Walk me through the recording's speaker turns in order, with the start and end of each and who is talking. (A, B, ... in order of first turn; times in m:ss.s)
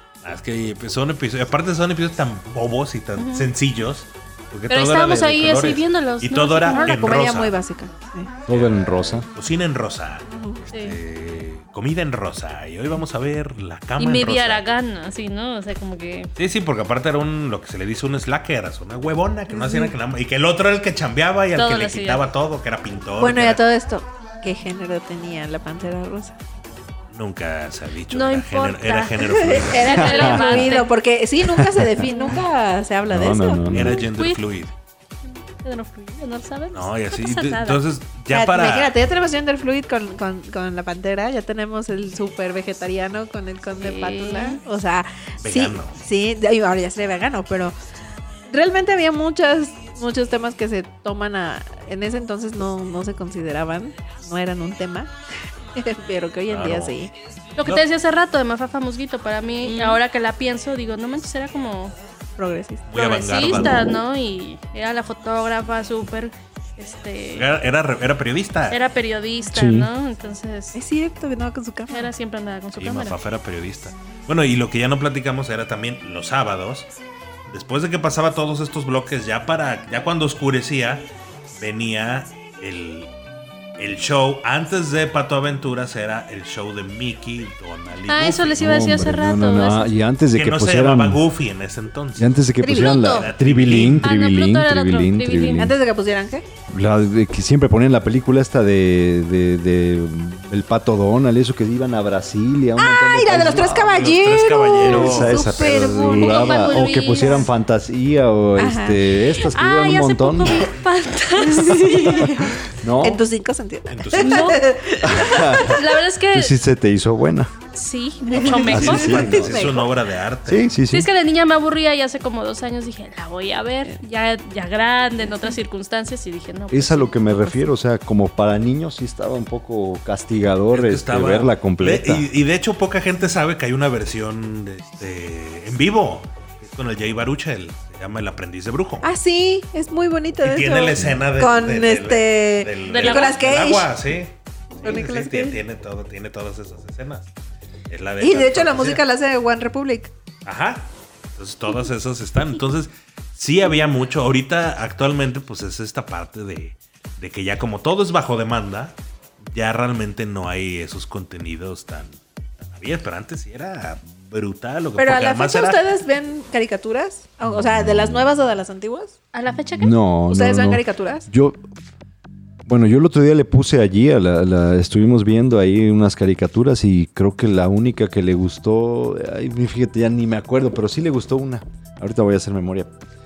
0:00.2-0:07.5 A
0:03.2-0:03.5 B
0:04.7-0:07.0 B
0:06.7-0:08.3 C
0:08.5-0:09.3 D
0:08.5-0:14.7 A
0:10.3-0:10.6 C
0:10.7-0:11.0 B
0:14.0-0:16.3 B
0:16.4-0:23.6 A
0:19.5-0:19.9 C
0:21.6-0:22.2 B
0:23.2-0:26.4 C
0:27.1-0:30.3 A
0:28.1-0:30.9 B
0:29.2-0:33.7 C
0:30.0-0:30.7 D
0:31.4-0:32.0 D
0:32.0-0:32.4 B
0:33.1-0:34.0 D
0:33.7-0:34.7 A
0:34.0-0:34.4 B
0:35.3-0:37.8 B
0:36.7-0:38.9 A
0:38.3-0:47.8 C
0:43.8-0:44.6 B
0:45.4-0:46.0 A
0:48.5-0:55.1 C
0:55.8-0:57.1 C
0:56.5-0:57.0 A
0:57.6-1:02.0 B
0:59.6-1:00.0 C
1:02.4-1:02.9 C
1:02.9-1:04.0 A
1:02.9-1:07.5 B
1:07.3-1:08.8 A
1:08.7-1:10.8 B
1:09.5-1:09.9 D
1:10.7-1:12.1 C
1:11.9-1:13.2 B
1:12.8-1:16.9 A
1:17.5-1:23.1 A
1:23.8-1:28.8 A
1:28.1-1:29.9 B
1:28.6-1:31.2 D
1:30.4-1:32.3 A
1:32.2-1:35.8 D
1:32.6-1:33.3 B
1:33.0-1:34.1 A
1:33.9-1:35.7 B
1:35.6-1:36.4 C
1:36.7-1:44.1 D
1:42.8-1:47.4 C
1:43.9-1:45.7 A
1:44.8-1:50.7 D
1:45.8-1:47.5 B
1:48.6-1:49.0 C
1:49.4-1:52.3 B
1:51.4-1:55.8 C
1:51.8-1:53.2 D
1:53.9-1:54.6 A
1:54.1-1:54.7 B
1:55.0-1:55.8 D
1:55.5-1:56.6 B
1:56.3-1:57.5 D
1:57.7-1:59.2 B
1:58.3-1:59.9 C
1:58.3-2:00.7 A
1:58.7-1:59.6 D
2:00.4-2:01.1 D
2:00.9-2:07.6 B
2:06.7-2:12.2 D
2:10.7-2:19.1 A
2:19.0-2:23.9 C
2:20.4-2:27.3 A
2:22.8-2:23.4 B
2:24.8-2:25.6 C
2:27.9-2:29.0 A
2:28.2-2:30.1 C
2:30.4-2:45.8 A
2:45.0-2:49.2 C
2:47.6-2:48.2 D
2:49.3-2:49.9 B
2:49.8-2:51.6 D
2:50.3-2:51.3 C
2:52.7-3:02.9 D